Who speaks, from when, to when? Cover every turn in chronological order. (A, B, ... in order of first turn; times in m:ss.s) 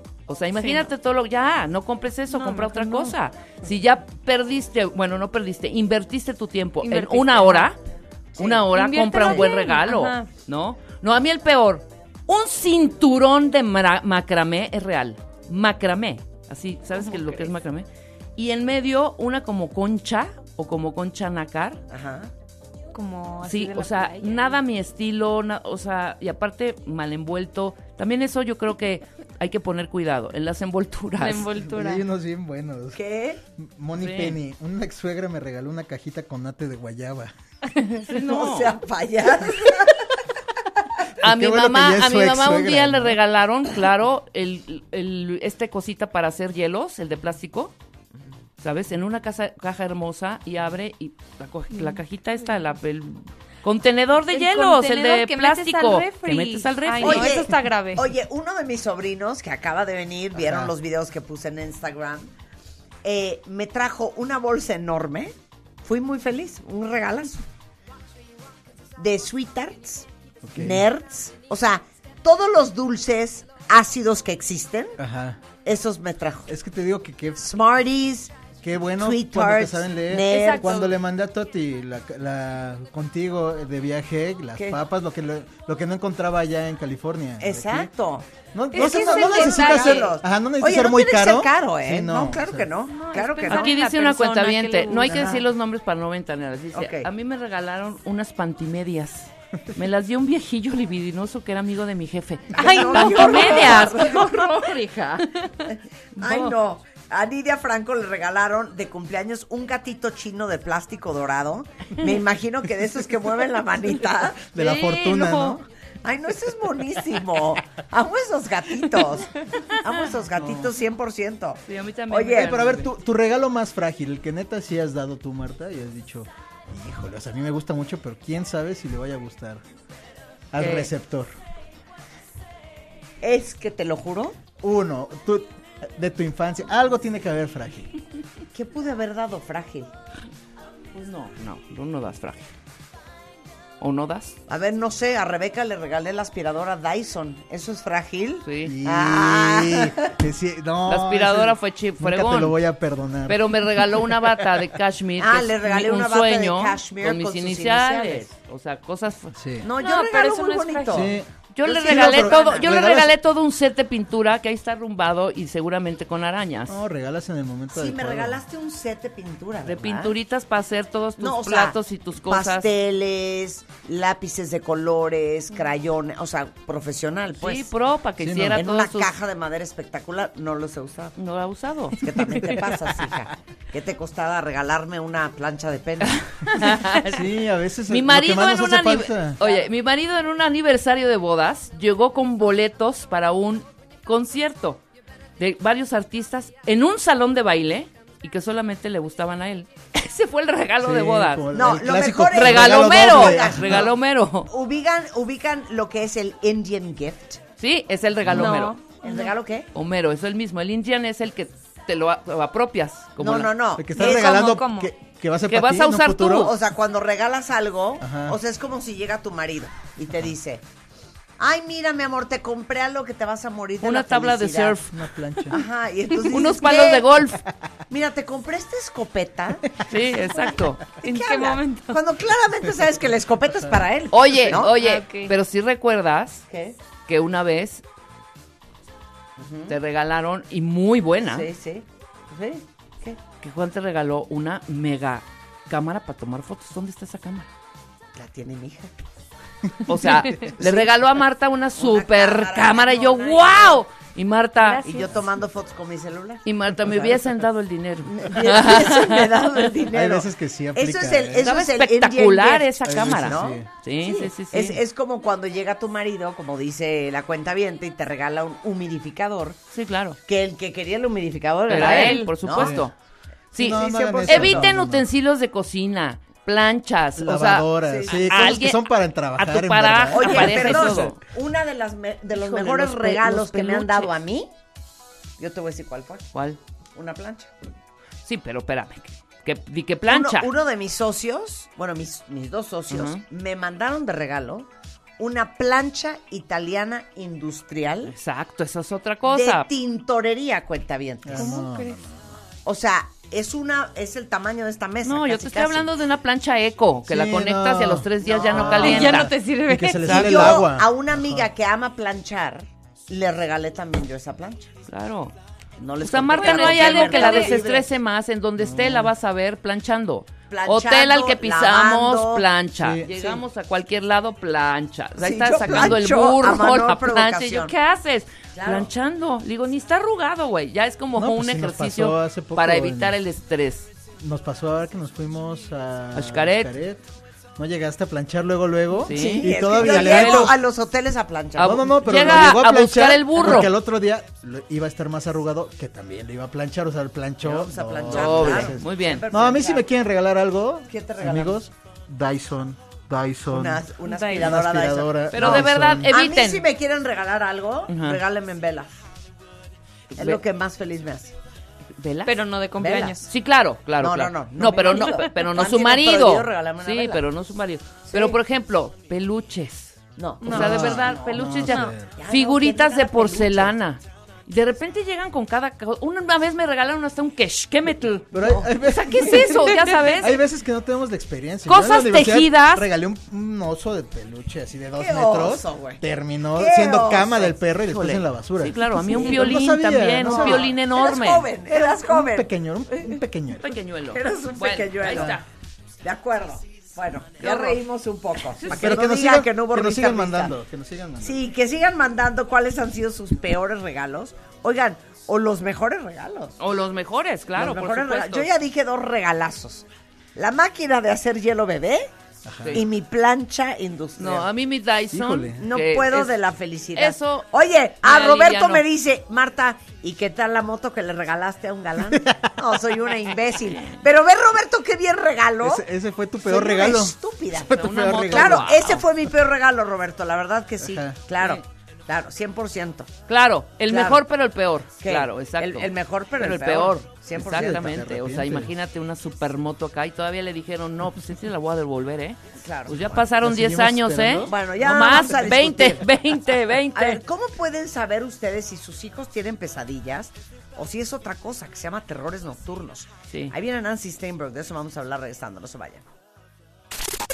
0:00.3-0:07.8 A
0:00.6-0:00.9 B
0:02.3-0:03.1 B
0:06.8-0:07.7 B
0:08.4-0:08.7 C
0:08.4-0:21.8 A
0:08.7-0:10.2 B
0:09.2-0:09.4 C
0:17.0-0:17.5 B
0:21.9-0:22.3 C
0:22.9-0:24.6 B
0:23.4-0:31.5 A
0:31.2-0:32.0 B
0:31.6-0:33.0 D
0:32.9-0:33.4 C
0:33.6-0:37.3 D
0:34.0-0:34.4 A
0:37.8-0:38.8 A
0:38.1-0:40.1 C
0:41.2-0:43.2 D
0:41.2-0:47.7 A
0:48.6-0:57.4 A
0:51.7-0:52.0 B
0:54.3-0:58.0 B
0:57.0-1:02.3 C
1:00.3-1:00.7 D
1:03.0-1:07.4 C
1:09.0-1:15.0 C
1:10.4-1:10.8 D
1:15.0-1:15.4 D
1:15.6-1:16.5 C
1:16.5-1:17.5 D
1:17.4-1:18.3 C
1:18.6-1:27.9 D
1:19.0-1:20.8 C
1:20.3-1:20.9 B
1:24.5-1:24.8 C
1:27.4-1:33.8 C
1:28.5-1:32.7 D
1:28.7-1:30.1 B
1:32.9-1:35.4 B
1:33.5-1:46.5 A
1:35.1-1:35.4 C
1:36.7-1:37.1 C
1:42.5-1:44.1 B
1:42.5-1:44.5 C
1:45.6-1:54.4 C
1:54.5-1:55.6 D
1:54.5-1:55.6 A
1:56.0-2:02.7 C
2:00.4-2:00.7 D
2:01.7-2:02.9 A
2:02.3-2:09.6 D
2:10.5-2:11.3 D
2:10.6-2:10.9 A
2:13.2-2:14.4 C
2:14.6-2:17.9 D
2:18.5-2:19.9 C
2:20.9-2:22.5 A
2:23.8-2:24.4 A
2:24.5-2:30.1 C
2:28.4-2:28.8 A
2:28.6-2:34.6 D
2:30.9-2:32.6 A
2:33.3-2:39.3 A
2:35.2-2:38.3 C
2:39.3-2:39.7 D
2:39.6-2:42.8 C
2:39.7-2:41.2 B
2:40.9-2:43.1 D
2:41.5-2:46.8 A
2:46.7-2:48.4 D
2:47.7-2:50.2 C
2:49.6-2:52.7 A
2:51.2-2:57.7 C
2:57.4-2:59.1 A
2:58.2-2:58.6 D
2:58.5-3:01.2 C
3:01.2-3:02.4 A
3:01.9-3:06.2 C
3:06.1-3:07.3 A
3:06.9-3:09.4 D
3:07.9-3:14.8 A
3:09.4-3:09.6 C
3:15.4-3:21.5 A
3:20.8-3:23.9 D
3:21.5-3:23.9 C
3:22.3-3:24.5 A
3:24.4-3:27.4 C
3:27.6-3:28.8 A
3:28.2-3:28.6 D
3:28.3-3:29.3 B
3:29.0-3:29.7 C
3:29.7-3:33.6 A
3:33.2-3:34.6 C
3:33.8-3:36.5 D
3:34.0-3:34.9 B
3:35.5-3:36.5 A
3:36.4-3:40.6 C
3:38.0-3:38.4 D
3:41.4-3:44.8 C
3:43.8-3:45.0 A
3:44.9-3:45.6 D
3:45.5-3:47.2 C
3:46.2-3:47.4 A
3:47.9-3:49.8 C
3:49.9-3:50.8 A
3:51.0-3:54.7 C
3:51.0-3:52.0 B
3:54.1-3:56.4 A
3:54.6-3:55.3 B
3:56.5-3:56.8 C
3:57.1-3:57.8 A
3:59.4-3:59.8 C
3:59.7-4:01.5 A
4:01.2-4:03.2 C
4:03.4-4:07.5 A
4:08.1-4:08.9 C
4:09.8-4:14.9 A
4:10.4-4:11.0 C
4:11.8-4:13.8 C
4:14.6-4:15.1 B
4:14.8-4:17.2 C
4:16.4-4:19.6 A
4:18.0-4:29.6 C
4:19.9-4:21.5 D
4:21.4-4:24.8 A
4:22.8-4:23.7 D
4:29.7-4:30.2 A
4:30.2-4:32.8 C
4:31.7-4:32.9 A
4:32.5-4:32.9 D
4:33.5-4:41.2 A
4:33.5-4:35.1 D
4:33.6-4:34.6 C
4:37.2-4:41.1 D
4:37.8-4:38.6 C
4:40.1-4:44.5 C
4:42.3-4:44.1 A
4:45.4-4:46.3 C
4:46.3-4:46.6 A
4:46.9-4:47.5 C
4:48.2-4:50.5 A
4:50.0-4:58.1 C
4:52.9-4:53.2 A
4:58.1-4:59.7 A
4:59.3-5:01.6 C
5:01.2-5:02.4 D
5:01.4-5:02.0 B
5:02.6-5:05.9 C
5:05.0-5:09.3 A
5:07.0-5:11.5 D
5:08.2-5:09.2 C
5:08.6-5:10.2 B
5:10.0-5:14.7 C
5:10.0-5:10.6 A
5:14.9-5:15.3 A
5:15.8-5:17.9 C
5:16.0-5:33.9 A
5:16.4-5:17.5 B
5:18.6-5:19.1 D
5:20.5-5:22.5 C
5:22.8-5:23.1 D
5:23.1-5:23.4 C
5:25.2-5:27.7 C
5:25.7-5:25.9 D
5:28.5-5:28.9 C
5:31.2-5:33.2 D
5:34.2-5:40.6 D
5:36.1-5:36.7 A
5:39.0-5:40.5 A
5:39.0-5:42.2 C
5:41.6-5:43.7 A
5:41.6-5:56.1 D
5:47.4-5:49.9 C
5:48.1-5:49.2 A
5:50.9-5:51.6 C
5:53.5-5:58.9 C
5:54.0-5:54.6 B
5:55.3-5:56.7 A
5:57.9-5:58.2 A
6:00.1-6:00.4 A
6:00.2-6:01.3 C
6:02.0-6:02.4 A
6:02.2-6:03.3 B
6:02.8-6:03.2 C
6:03.3-6:20.3 A
6:04.0-6:07.2 C
6:08.1-6:08.4 C
6:10.2-6:11.5 C
6:10.4-6:10.9 B
6:10.5-6:12.1 D
6:11.7-6:11.9 B
6:12.1-6:13.7 C
6:18.3-6:30.7 D
6:18.9-6:20.4 B
6:21.7-6:22.9 A
6:25.0-6:26.0 C
6:26.5-6:27.6 C
6:27.9-6:31.5 A
6:29.1-6:29.6 C
6:30.2-6:32.5 C
6:31.7-6:33.8 D
6:33.6-6:35.4 A
6:34.1-6:35.4 C
6:36.0-6:40.5 C
6:37.4-6:37.8 A
6:38.7-6:41.4 D
6:41.2-6:46.6 C
6:46.6-6:48.5 A
6:47.5-6:52.1 C
6:52.4-6:52.8 D
6:52.7-6:54.5 C
6:54.2-6:56.3 A
6:55.1-6:55.6 D
6:55.6-7:05.9 C
6:56.9-6:57.5 A
6:58.0-6:58.8 A
7:02.1-7:02.6 D
7:05.6-7:08.7 D
7:06.4-7:13.1 C
7:07.7-7:09.0 A
7:10.8-7:11.2 D
7:13.3-7:27.2 A
7:13.9-7:14.2 C
7:15.0-7:17.8 C
7:17.3-7:18.7 D
7:22.5-7:23.2 C
7:23.4-7:24.5 D
7:24.4-7:26.1 C
7:26.9-7:36.0 C